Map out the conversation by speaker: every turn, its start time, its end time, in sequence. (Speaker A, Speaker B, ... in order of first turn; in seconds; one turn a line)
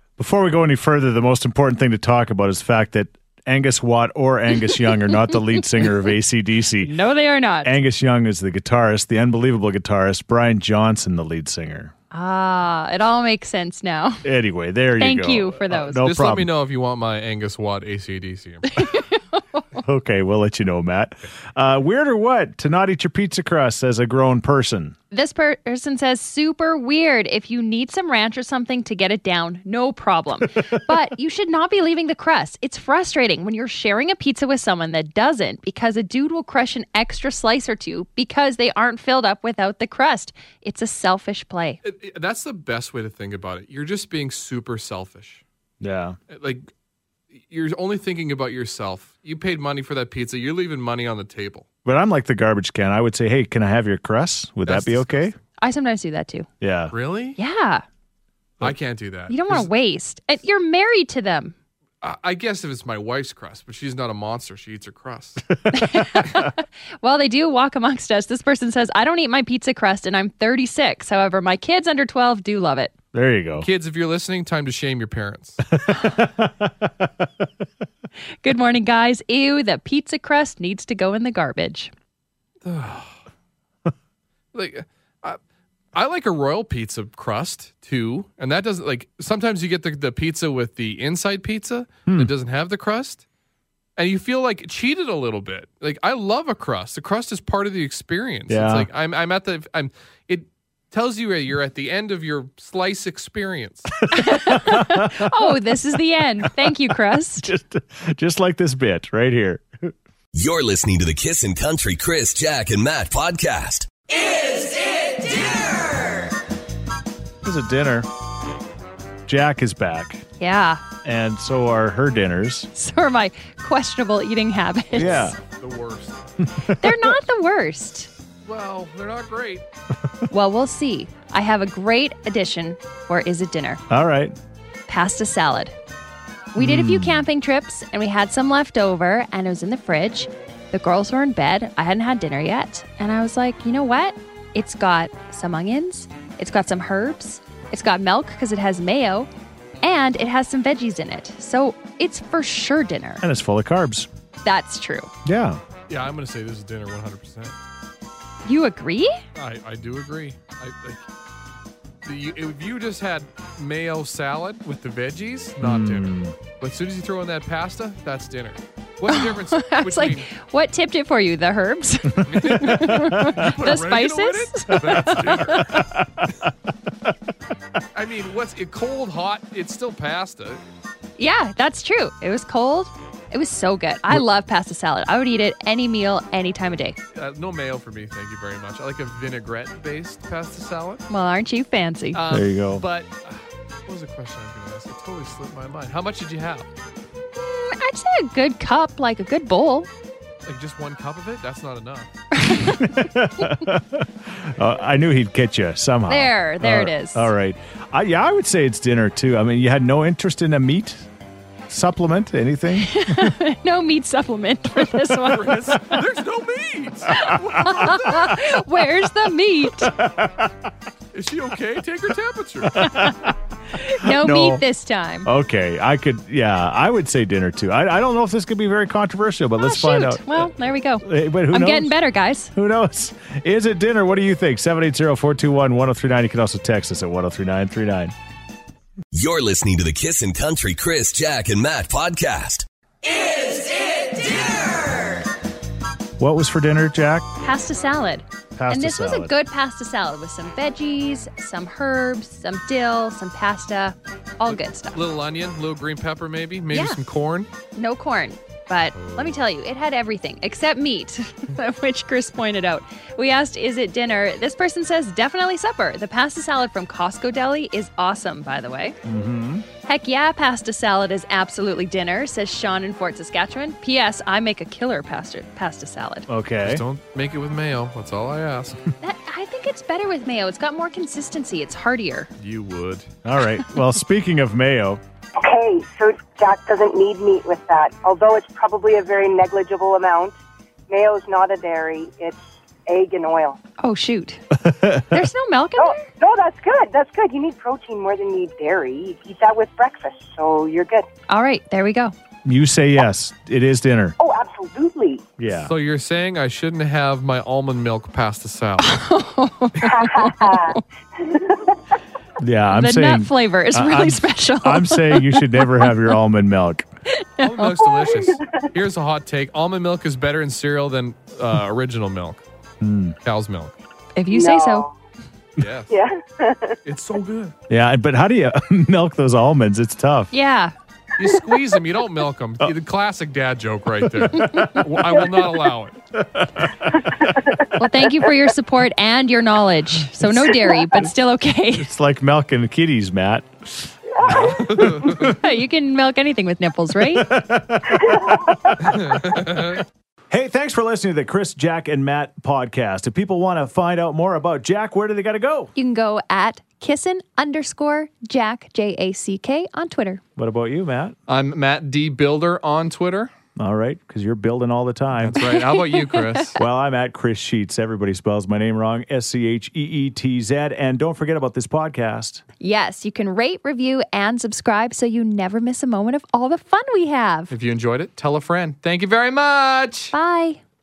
Speaker A: 0.2-6.9
Speaker B: 6.8-7.7
Speaker A: 7.6-11.9
Speaker B: 12.1-14.3
Speaker A: 14.2-16.5
Speaker B: 15.0-16.0
Speaker C: 16.0-18.8
Speaker B: 18.8-19.8
Speaker A: 19.8-24.9
Speaker B: 25.1-41.8
Speaker C: 41.8-45.4
Speaker A: 45.8-46.2
Speaker C: 46.3-46.7
Speaker C: 47.3-51.7
Speaker A: 51.9-55.3
Speaker C: 54.7-55.4
Speaker B: 55.6-56.5
Speaker A: 56.6-57.0
Speaker C: 56.9-57.4
Speaker B: 57.4-57.8
Speaker C: 58.6-59.7
Speaker B: 59.3-61.5
Speaker C: 62.0-65.5
Speaker A: 65.6-66.4
Speaker B: 65.7-72.9
Speaker A: 73.1-73.7
Speaker C: 73.6-75.7
Speaker A: 75.7-77.5
Speaker B: 78.4-81.9
Speaker C: 82.7-83.1
Speaker C: 84.5-85.4
Speaker C: 85.9-93.2
Speaker C: 94.0-104.0
Speaker A: 98.5-98.9
Speaker A: 104.1-105.6
Speaker B: 104.1-107.5
Speaker A: 106.4-109.9
Speaker D: 110.3-113.9
Speaker A: 117.4-118.1
Speaker A: 119.3-120.2
Speaker B: 120.4-120.8
Speaker A: 121.0-122.7
Speaker B: 122.7-125.3
Speaker C: 124.9-126.3
Speaker A: 125.0-125.4
Speaker A: 126.4-127.2
Speaker B: 126.8-128.1
Speaker C: 128.4-129.7
Speaker B: 130.3-133.8
Speaker A: 133.9-134.4
Speaker B: 134.9-135.7
Speaker B: 136.6-149.3
Speaker A: 136.6-137.3
Speaker B: 149.8-153.2
Speaker A: 153.2-154.1
Speaker B: 154.4-155.1
Speaker A: 155.2-155.6
Speaker C: 155.9-157.6
Speaker B: 158.4-159.2
Speaker C: 159.3-161.0
Speaker C: 162.1-170.3
Speaker A: 165.6-166.3
Speaker B: 169.1-175.9
Speaker C: 172.3-175.8
Speaker A: 172.6-173.5
Speaker A: 175.8-176.3
Speaker C: 177.9-180.6
Speaker B: 181.2-187.0
Speaker C: 187.1-191.1
Speaker B: 191.1-192.2
Speaker C: 192.1-196.7
Speaker A: 192.3-192.8
Speaker B: 197.4-199.9
Speaker C: 200.4-202.1
Speaker B: 202.4-202.9
Speaker A: 202.5-211.1
Speaker B: 206.1-207.3
Speaker A: 211.7-213.4
Speaker B: 212.8-215.9
Speaker C: 215.2-218.2
Speaker B: 217.1-220.0
Speaker A: 217.2-218.3
Speaker A: 219.7-220.7
Speaker C: 221.1-222.8
Speaker A: 222.6-224.6
Speaker B: 222.9-223.2
Speaker B: 223.7-225.3
Speaker A: 225.2-238.1
Speaker B: 229.6-232.5
Speaker D: 239.1-242.7
Speaker A: 246.2-247.3
Speaker B: 247.4-255.0
Speaker A: 248.6-249.3
Speaker C: 254.5-257.5
Speaker B: 256.7-257.0
Speaker B: 257.8-269.0
Speaker C: 259.0-259.4
Speaker A: 269.1-269.7
Speaker B: 269.9-276.3
Speaker A: 276.3-276.9
Speaker C: 276.6-278.8
Speaker B: 279.0-282.3
Speaker C: 282.4-283.1
Speaker A: 283.2-285.0
Speaker E: 285.4-290.4
Speaker E: 290.9-293.6
Speaker B: 293.8-294.4
Speaker A: 294.5-295.2
Speaker B: 295.1-296.1
Speaker E: 295.8-301.1
Speaker B: 301.3-302.1
Speaker A: 302.4-304.2
Speaker E: 304.2-305.3
Speaker A: 305.4-305.7
Speaker C: 305.5-309.1
Speaker B: 308.8-310.8
Speaker E: 309.8-311.8
Speaker A: 312.4-316.9
Speaker B: 312.7-315.9
Speaker B: 317.1-317.9
Speaker C: 317.4-322.4
Speaker E: 318.0-318.7
Speaker A: 322.8-323.2
Speaker C: 323.2-323.7
Speaker B: 324.2-324.9
Speaker E: 324.3-324.9
Speaker C: 325.6-325.9
Speaker E: 325.9-326.8
Speaker C: 326.9-327.6
Speaker A: 327.7-330.3
Speaker B: 330.3-330.7
Speaker C: 331.2-336.0
Speaker B: 334.4-334.8
Speaker A: 336.2-337.3
Speaker E: 336.9-338.1
Speaker B: 337.7-341.9
Speaker E: 340.5-341.0
Speaker A: 341.7-345.3
Speaker E: 344.1-344.8
Speaker C: 344.3-345.3
Speaker B: 345.1-347.3
Speaker A: 347.1-349.7
Speaker E: 347.9-348.9
Speaker C: 348.8-349.8
Speaker A: 350.3-355.7
Speaker B: 355.8-360.2
Speaker A: 360.4-361.2
Speaker C: 361.3-363.3
Speaker A: 363.6-365.4
Speaker C: 365.2-366.6
Speaker B: 365.4-366.5
Speaker A: 366.6-372.4
Speaker B: 372.6-377.5
Speaker C: 377.5-380.1
Speaker B: 380.1-380.6